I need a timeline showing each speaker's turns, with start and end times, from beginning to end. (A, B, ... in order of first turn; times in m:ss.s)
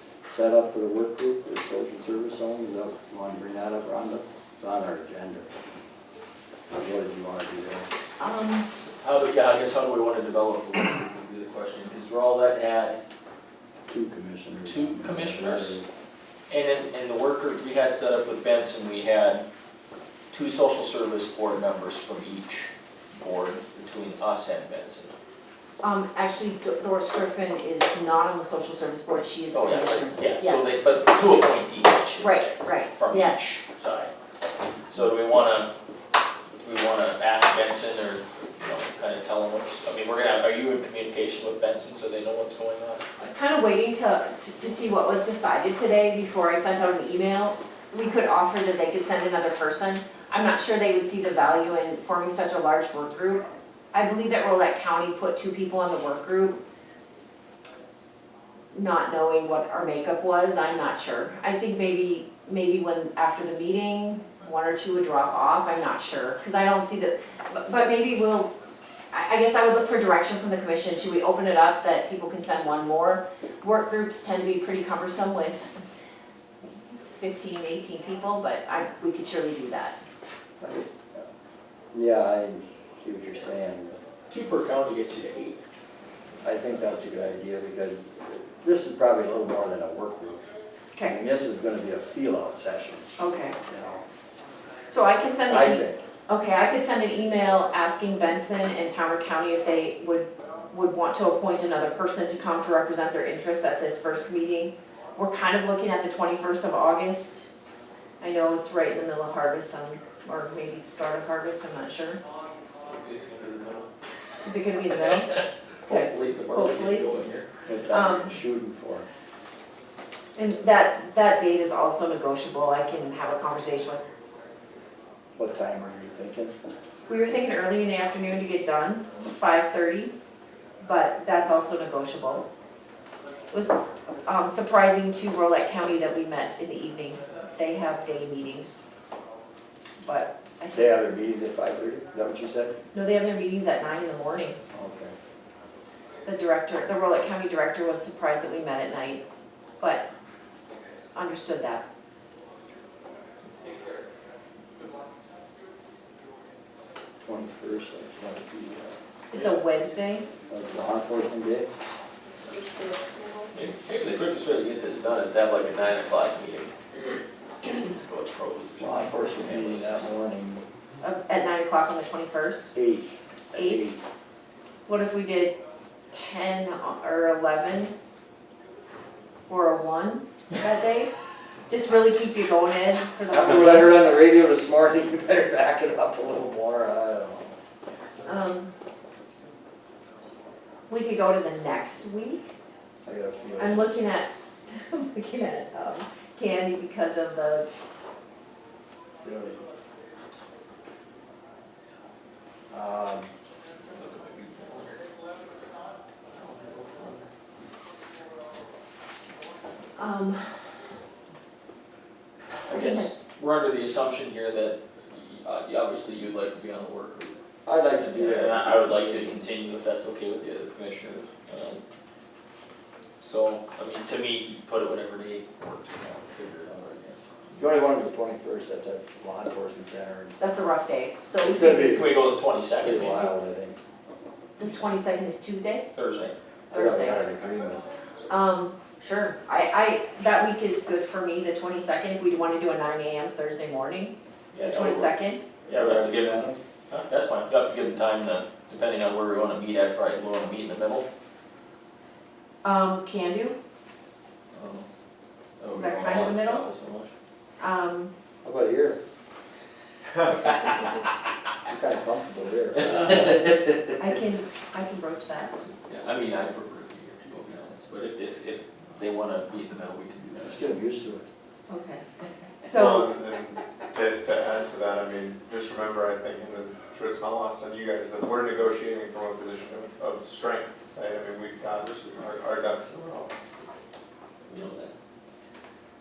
0:00.2-0:05.5 A
0:06.7-0:07.9 A
0:08.2-0:08.7 B
0:09.0-0:13.0 C
0:13.9-0:15.9 A
0:14.6-0:15.8 C
0:16.5-0:19.4 C
0:20.3-0:25.1 C
0:25.8-0:30.6 B
0:29.5-0:34.1 C
0:32.2-0:33.4 B
0:34.9-0:35.7 C
0:36.6-0:43.0 C
0:43.2-0:56.6 B
0:58.7-1:08.5 B
1:09.1-1:15.7 B
1:17.2-1:20.0 B
1:20.6-1:21.3 A
1:21.9-1:24.0 A
1:24.3-1:25.6 C
1:26.4-1:30.4 A
1:31.0-1:33.1 A
1:33.2-1:33.6 B
1:33.7-1:34.0 A
1:34.9-1:47.5 B
1:35.4-1:36.0 A
1:48.2-1:52.2 B
1:52.8-1:53.9 C
1:54.4-1:57.1 B
1:55.3-1:57.5 C
1:57.6-1:59.1 A
1:57.9-1:58.3 B
2:00.4-2:04.0 B
2:05.4-2:06.5 A
2:07.1-2:10.1 B
2:10.8-2:12.5 B
2:13.5-2:18.8 B
2:20.0-2:21.0 B
2:20.7-2:22.7 A
2:22.9-2:24.6 B
2:24.7-2:25.2 A
2:26.2-2:29.2 B
2:29.8-2:30.0 B
2:31.1-2:31.8 B
2:37.2-2:38.9 A
2:39.3-2:40.2 B
2:39.3-2:39.6 C
2:40.5-2:41.7 A
2:42.4-2:43.5 B
2:43.5-2:46.8 C
2:47.6-2:50.1 C
2:48.8-2:50.6 A
2:51.0-2:52.7 B
2:52.7-2:54.0 A
2:53.5-2:53.9 B
2:54.8-2:55.6 B
2:56.1-2:57.9 B
2:59.5-3:01.1 B
3:01.7-3:04.0 B
3:03.3-3:07.6 A
3:08.2-3:08.7 B
3:10.9-3:12.5 B
3:13.0-3:13.9 A
3:13.6-3:17.7 B
3:19.2-3:19.6 A
3:22.7-3:23.3 A
3:23.9-3:25.0 C
3:26.3-3:27.2 C
3:30.0-3:30.4 B
3:32.7-3:37.4 C
3:32.7-3:33.1 B
3:37.6-3:39.4 A
3:38.0-3:41.8 C
3:43.2-3:47.7 C
3:47.6-3:50.4 A
3:50.4-3:52.0 B
3:51.4-3:52.1 A
3:51.7-3:53.3 C
3:52.8-3:53.8 A
3:54.6-3:55.8 B
3:55.9-3:56.4 C
3:56.7-3:57.2 B
3:56.7-3:57.8 A
3:58.3-4:05.4 B
4:04.5-4:05.1 C
4:05.7-4:06.6 A
4:05.7-4:11.1 C
4:12.6-4:13.6 B
4:14.5-4:14.8 C
4:15.6-4:17.1 C
4:15.7-4:16.7 B
4:17.6-4:18.1 B
4:18.4-4:19.0 A
4:21.6-4:23.3 A
4:22.7-4:23.8 C
4:24.0-4:25.7 B
4:25.9-4:30.8 C
4:30.4-4:31.2 A
4:31.7-4:32.0 B
4:32.6-4:33.1 B
4:32.6-4:43.3 D
4:44.5-4:44.9 C